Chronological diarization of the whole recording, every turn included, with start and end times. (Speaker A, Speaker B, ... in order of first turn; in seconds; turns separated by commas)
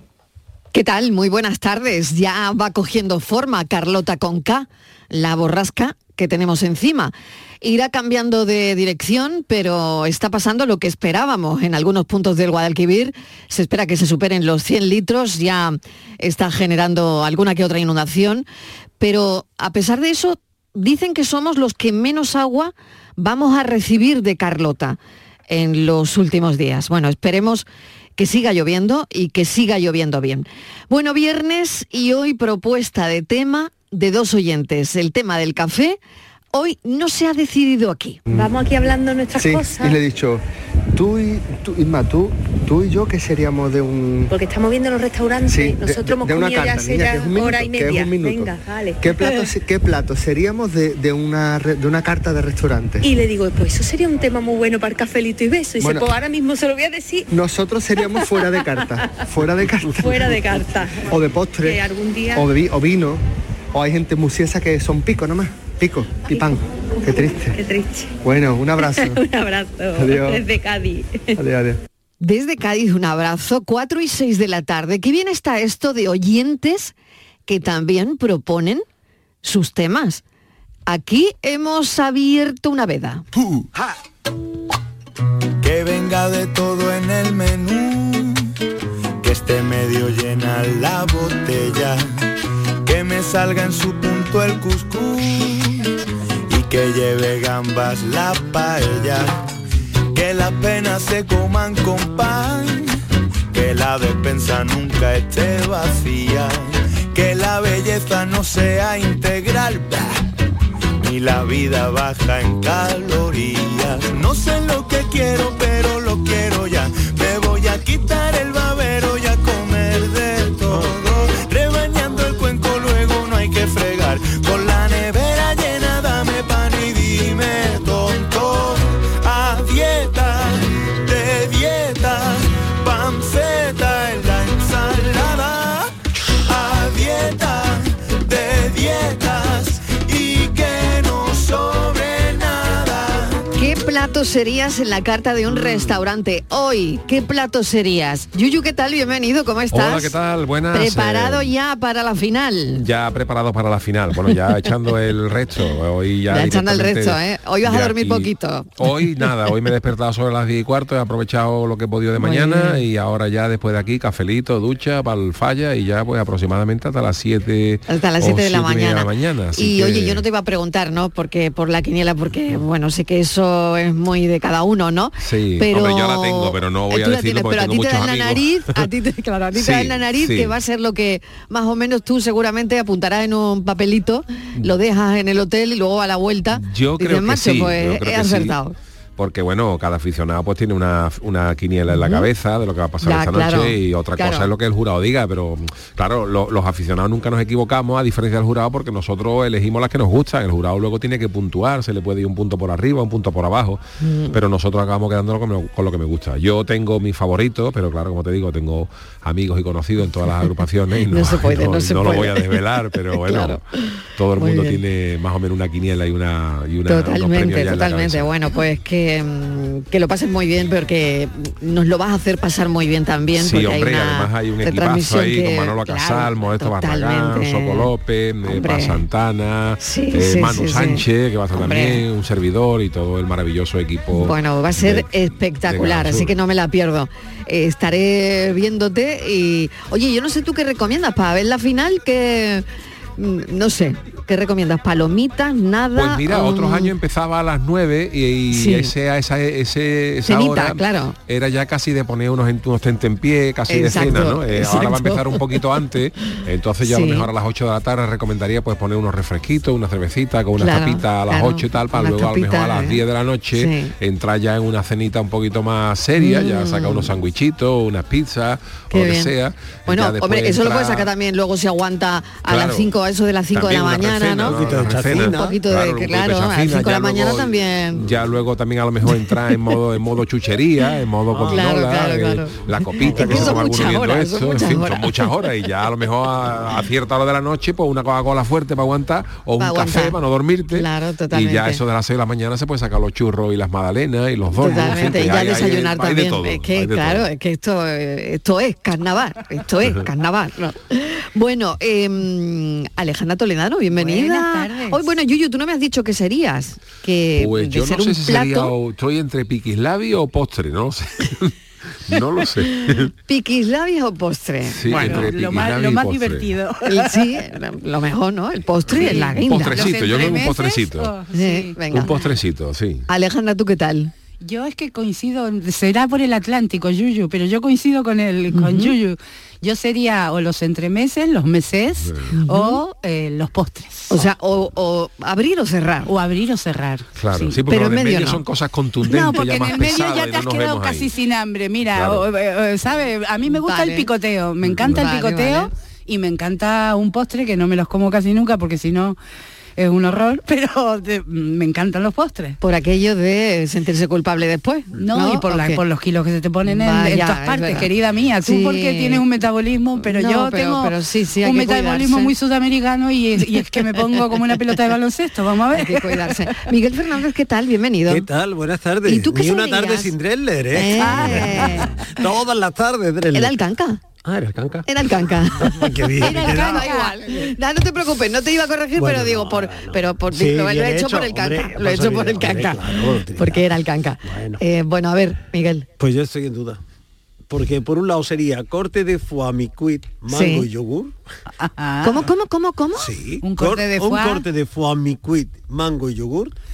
Speaker A: 0.7-18.4, Speaker A: 19.0-36.0, Speaker A: 36.5-38.2, Speaker B: 38.3-40.0, Speaker C: 39.3-40.4, Speaker C: 40.9-44.3, Speaker B: 44.3-49.5, Speaker C: 45.5-53.1, Speaker B: 53.0-57.3, Speaker C: 55.8-56.1, Speaker C: 57.3-60.3, Speaker B: 58.1-59.2, Speaker B: 59.9-62.5, Speaker C: 61.0-61.8, Speaker C: 62.3-63.2, Speaker C: 63.7-67.6, Speaker B: 66.2-68.2, Speaker C: 68.2-69.2, Speaker B: 68.8-71.4, Speaker C: 70.0-70.4, Speaker C: 71.4-71.8, Speaker A: 72.2-76.9, Speaker A: 77.5-78.8, Speaker A: 79.4-80.2, Speaker A: 80.9-83.2, Speaker D: 85.6-88.5, Speaker D: 89.2-92.0, Speaker D: 92.8-95.9, Speaker D: 96.5-99.4, Speaker D: 100.1-103.0, Speaker D: 103.5-110.2, Speaker D: 111.0-143.4, Speaker E: 120.7-120.9, Speaker A: 143.6-150.2, Speaker F: 149.7-151.5, Speaker A: 150.7-152.8, Speaker F: 152.8-170.2, Speaker A: 156.3-158.8, Speaker A: 162.2-162.8, Speaker A: 167.9-188.8, Speaker F: 175.2-178.4, Speaker F: 179.5-180.5, Speaker F: 186.5-188.6, Speaker F: 189.2-213.6, Speaker A: 191.9-192.3, Speaker A: 193.0-194.5, Speaker A: 204.0-204.4, Speaker A: 211.1-213.6, Speaker F: 214.2-218.3, Speaker A: 214.3-214.8, Speaker A: 216.8-227.9, Speaker F: 223.3-235.1, Speaker A: 228.4-229.0, Speaker A: 229.8-232.0, Speaker A: 234.1-242.6, Speaker F: 235.7-236.3, Speaker A: 243.2-246.9, Speaker F: 245.9-271.1, Speaker A: 248.5-248.9, Speaker A: 250.2-251.2, Speaker A: 253.7-255.8, Speaker A: 256.8-257.3, Speaker A: 260.6-263.0, Speaker A: 263.5-263.9, Speaker A: 266.2-267.1, Speaker A: 268.9-269.3, Speaker A: 269.9-278.1, Speaker F: 272.4-272.9, Speaker F: 273.5-297.3, Speaker E: 274.4-275.6, Speaker A: 279.1-279.6, Speaker E: 281.3-281.7, Speaker A: 281.5-285.3, Speaker E: 283.0-283.6, Speaker A: 289.6-290.2, Speaker A: 290.7-291.8, Speaker A: 294.5-308.7, Speaker G: 294.7-295.0, Speaker G: 303.9-305.1, Speaker F: 307.3-311.5, Speaker F: 312.1-313.1, Speaker A: 312.9-315.1, Speaker F: 314.7-316.5, Speaker G: 314.9-317.4, Speaker A: 316.9-320.0, Speaker G: 318.9-322.1, Speaker F: 319.4-321.2, Speaker A: 321.3-322.1, Speaker F: 321.9-323.1, Speaker A: 323.1-324.1, Speaker G: 324.4-334.2, Speaker A: 328.5-329.0, Speaker F: 332.0-332.4, Speaker A: 332.4-332.8, Speaker A: 334.1-336.1, Speaker G: 336.1-337.6, Speaker F: 337.2-341.1, Speaker A: 337.7-338.4, Speaker G: 339.1-349.2, Speaker F: 341.9-342.2, Speaker A: 343.5-344.1, Speaker F: 344.7-345.0, Speaker A: 344.9-345.7, Speaker G: 349.8-352.6, Speaker A: 352.6-355.8, Speaker G: 354.9-366.2, Speaker A: 356.6-357.9, Speaker A: 358.4-359.2, Speaker A: 360.0-362.3, Speaker A: 365.7-368.3, Speaker E: 368.1-373.6, Speaker A: 369.0-370.1, Speaker A: 370.7-372.1, Speaker G: 371.0-371.8, Speaker A: 373.3-374.0, Speaker E: 374.2-374.9, Speaker A: 374.9-385.9, Speaker E: 375.6-377.0, Speaker G: 376.2-377.5, Speaker E: 378.9-383.6, Speaker E: 384.2-384.6, Speaker E: 386.0-386.8, Speaker E: 387.5-391.1, Speaker A: 390.2-390.7, Speaker G: 391.6-392.3, Speaker A: 392.0-393.1, Speaker E: 392.9-396.5, Speaker G: 393.4-394.4